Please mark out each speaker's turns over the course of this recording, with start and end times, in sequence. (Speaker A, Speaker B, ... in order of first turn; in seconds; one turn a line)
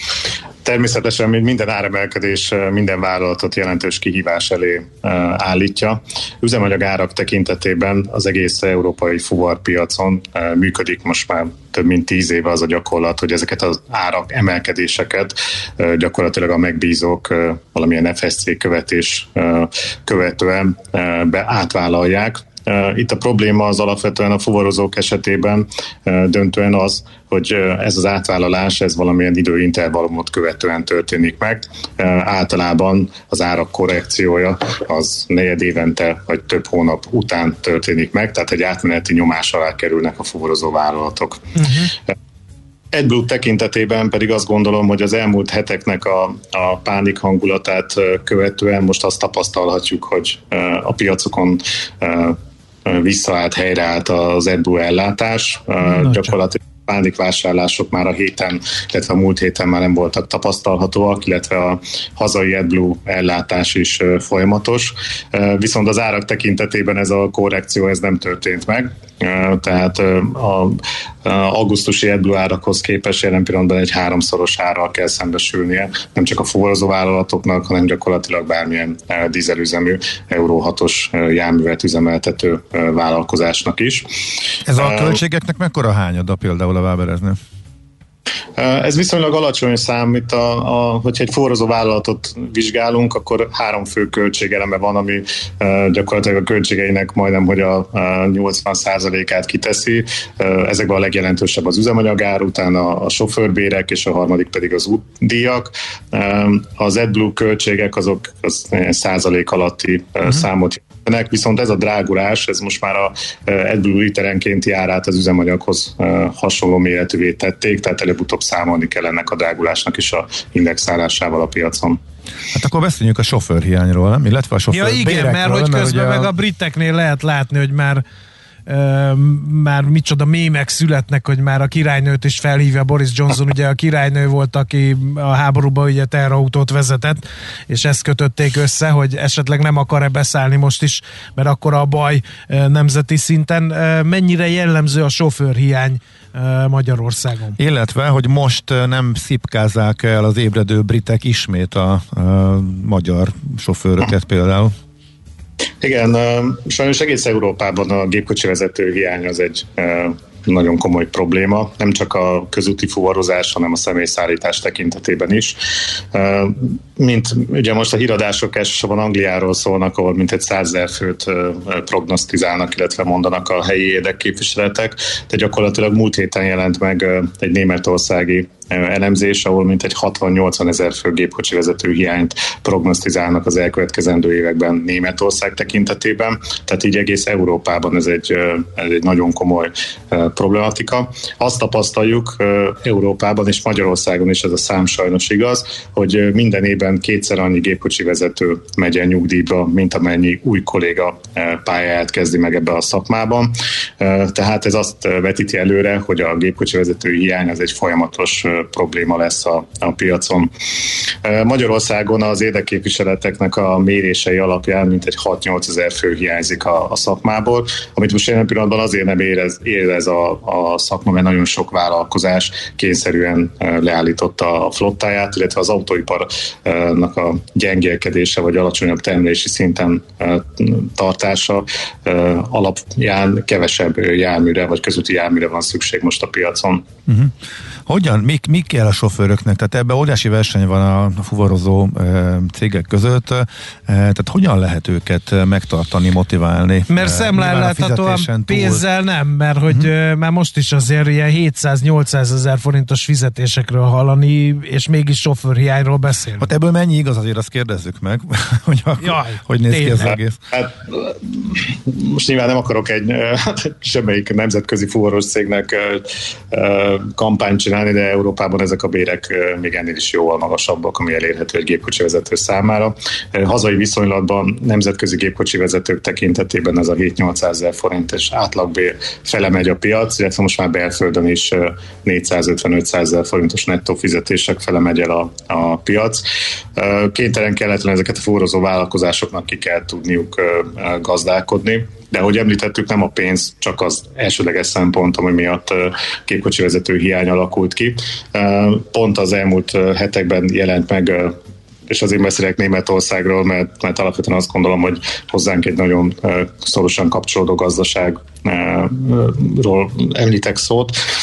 Speaker A: 0.6-41.4
Speaker B: 41.6-41.9
Speaker A: 42.9-84.1
Speaker C: 84.7-87.4
Speaker A: 84.7-85.2
Speaker A: 88.6-122.0
Speaker C: 122.5-126.3
Speaker B: 124.7-128.0
Speaker B: 128.7-147.6
Speaker C: 147.6-154.7
Speaker A: 155.8-165.6
Speaker A: 166.1-210.5
Speaker A: 211.2-236.8
Speaker C: 237.1-237.3
Speaker C: 237.8-248.8
Speaker B: 246.9-256.5
Speaker C: 256.4-260.4
Speaker B: 259.0-260.2
Speaker A: 260.5-286.2
Speaker A: 286.8-301.4
Speaker A: 301.9-311.0